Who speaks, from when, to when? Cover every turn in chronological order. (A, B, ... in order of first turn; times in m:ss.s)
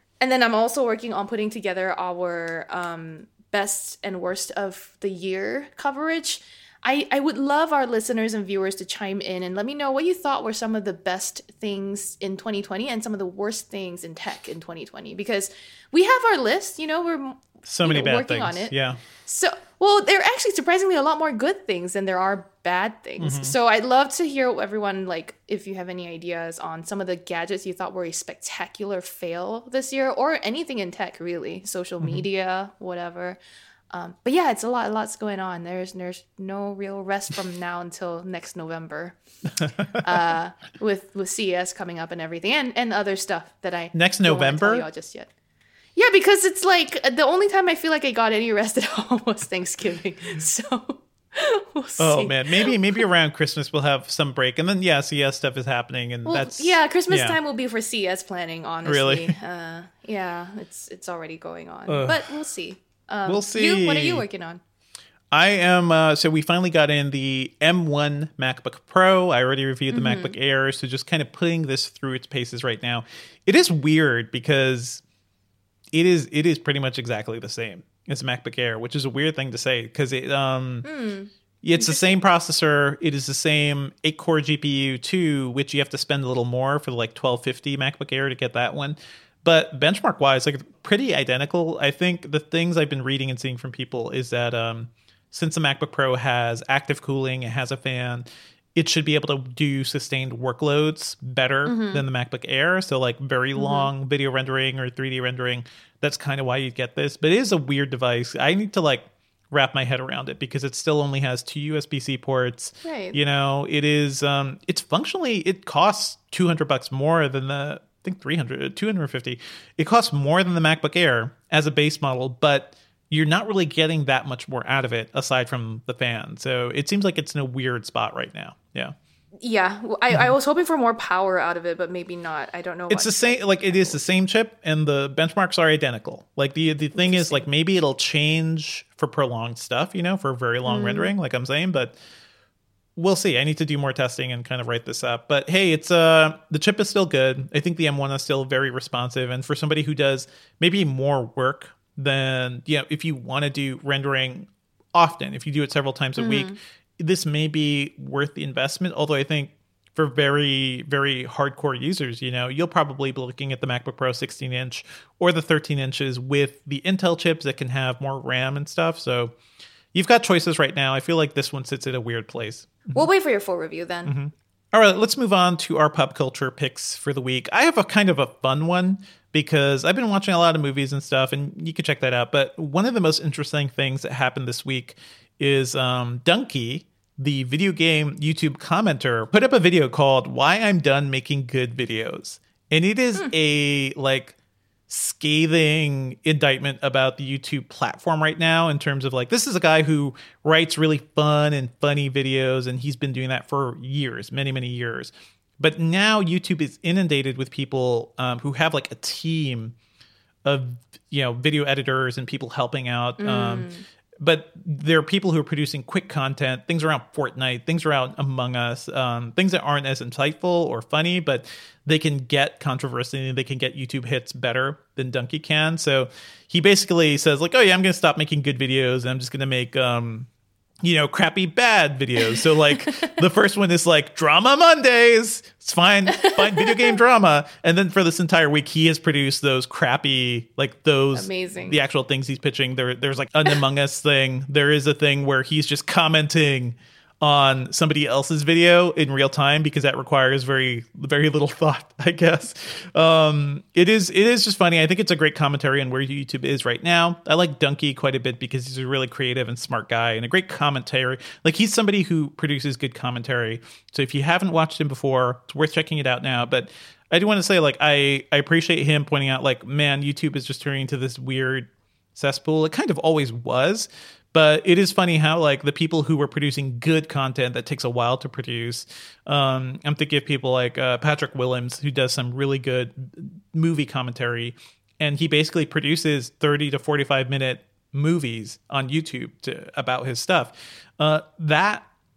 0:00.2-0:18.7 A
0:17.7-0:19.0 B
0:19.2-0:33.4 A
0:23.2-0:23.6 B
0:33.9-0:39.2 A
0:39.6-0:40.0 B
0:40.0-0:45.3 A
0:43.9-0:44.8 B
0:46.0-0:53.0 A
0:52.0-0:57.4 B
0:56.2-1:04.6 A
0:58.8-0:59.3 B
1:01.9-1:02.2 B
1:03.2-1:04.2 B
1:05.3-1:15.0 B
1:09.9-1:10.3 A
1:15.9-1:20.9 B
1:20.8-1:22.2 A
1:21.6-2:08.9 B
1:41.6-1:42.0 A
1:43.5-1:43.9 A
1:52.8-1:53.2 A
2:09.4-2:14.0 A
2:12.9-2:22.0 B
2:17.0-2:17.4 A
2:20.6-2:21.1 A
2:23.0-2:49.3 B
2:36.2-2:36.6 A
2:49.9-2:53.1 B
2:52.9-2:54.1 A
2:54.0-3:14.3 B
3:14.9-3:29.7 B
3:30.4-3:33.7 B
3:33.2-3:33.8 A
3:34.2-3:50.3 B
3:50.8-4:51.8 B
3:52.9-3:53.1 A
3:56.1-3:57.0 A
4:01.1-4:01.8 A